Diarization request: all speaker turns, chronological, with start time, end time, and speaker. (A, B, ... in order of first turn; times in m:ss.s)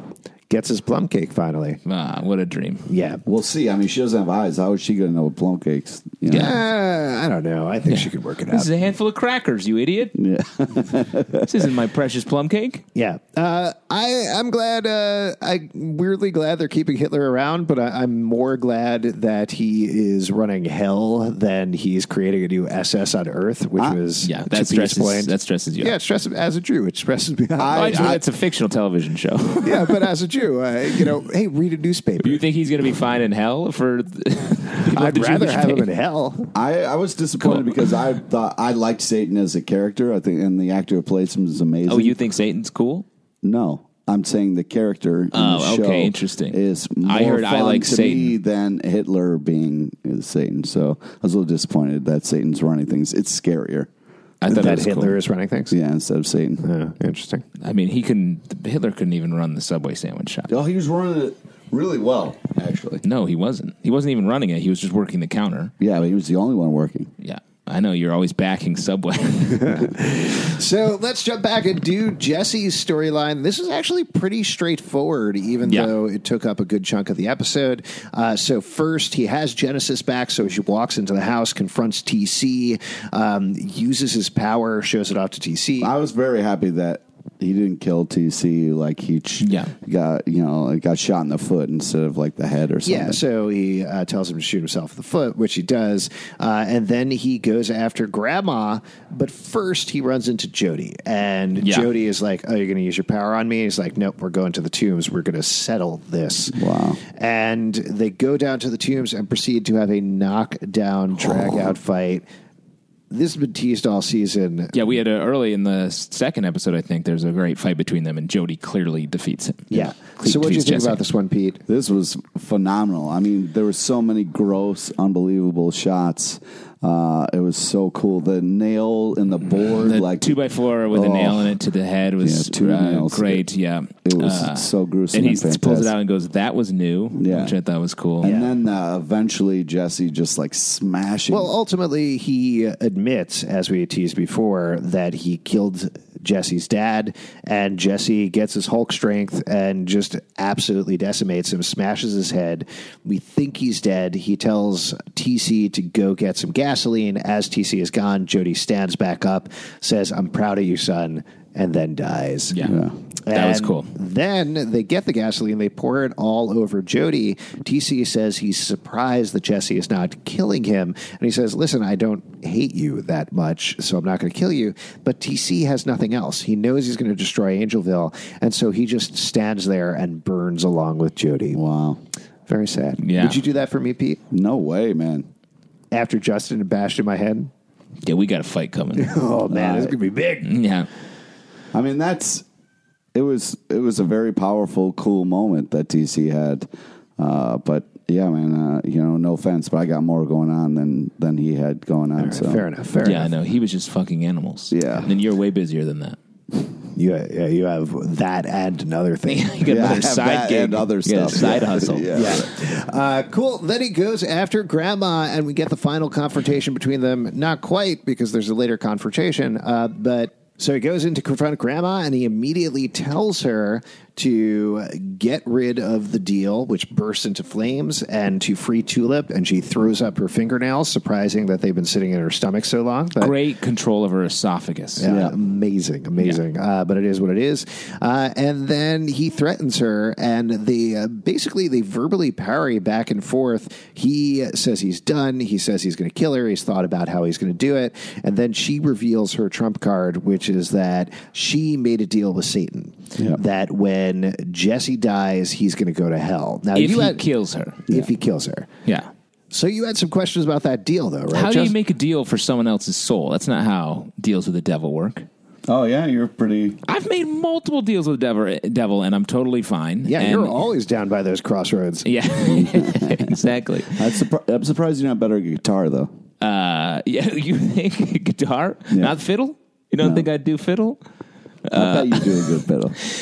0:00.5-0:01.8 A
0:01.8-0:02.9 B
0:02.9-0:03.2 A
0:03.2-0:06.6 C
0:06.3-0:06.6 B
0:06.3-0:08.7 A
0:07.9-0:10.1 B
0:10.1-0:11.7 C
0:11.4-0:12.8 B
0:12.9-0:28.2 A
0:24.2-0:25.9 B
0:27.6-0:28.2 C
0:27.7-0:29.9 B
0:29.6-0:32.4 A
0:32.2-0:35.9 B
0:34.7-0:36.5 A
0:36.5-0:42.2 C
0:37.4-0:37.8 B
0:41.9-0:43.0 B
0:43.4-0:53.9 C
0:45.3-0:48.3 B
0:54.4-0:55.1 B
0:54.5-0:55.7 A
0:55.7-0:56.6 C
0:56.6-0:57.4 A
0:57.6-1:00.5 B
1:00.5-1:03.0 C
1:03.0-1:05.7 B
1:05.8-1:07.1 C
1:07.2-1:09.9 B
1:09.6-1:25.9 A
1:25.8-1:33.2 C
1:29.4-1:29.7 B
1:32.8-1:52.2 A
1:41.6-1:41.9 B
1:46.5-1:47.0 C
1:53.1-1:54.7 A
1:54.7-2:01.0 B
1:59.7-2:01.6 A
2:01.7-2:10.4 C
2:09.8-2:18.3 B
2:10.9-2:11.6 C
2:12.2-2:13.4 C
2:14.0-2:15.9 C
2:17.1-2:17.5 C
2:18.2-2:21.5 C
2:18.2-2:18.5 A
2:21.3-2:42.6 A
2:42.5-2:42.8 B
2:42.6-2:42.9 C
2:43.3-3:01.6 A
2:43.3-2:43.9 B
3:01.5-3:02.0 C
3:02.5-3:04.2 A
3:03.0-3:03.4 B
3:04.3-3:05.3 C
3:05.9-3:07.5 A
3:08.0-3:09.1 B
3:09.0-3:10.5 A
3:09.5-3:09.9 C
3:10.4-3:10.9 B
3:11.7-3:12.4 C
3:13.1-3:16.7 C
3:17.2-3:22.6 C
3:22.2-3:23.3 A
3:23.0-3:26.2 B
3:24.7-3:25.1 C
3:26.9-3:30.1 A
3:29.3-3:32.4 B
3:29.6-3:32.5 C
3:32.1-3:53.3 A
3:53.2-3:55.1 B
3:55.0-4:17.2 A
3:55.1-3:55.3 C
4:16.7-4:17.8 B
4:17.9-4:18.7 A
4:19.5-4:21.7 A
4:21.3-4:25.3 B
4:25.7-4:26.8 C
4:26.9-4:30.7 B
4:30.0-4:32.1 A
4:32.0-4:34.2 B
4:32.5-4:36.1 C
4:36.4-4:41.0 B
4:40.0-4:40.3 C
4:41.7-4:42.6 B
4:41.7-4:43.0 C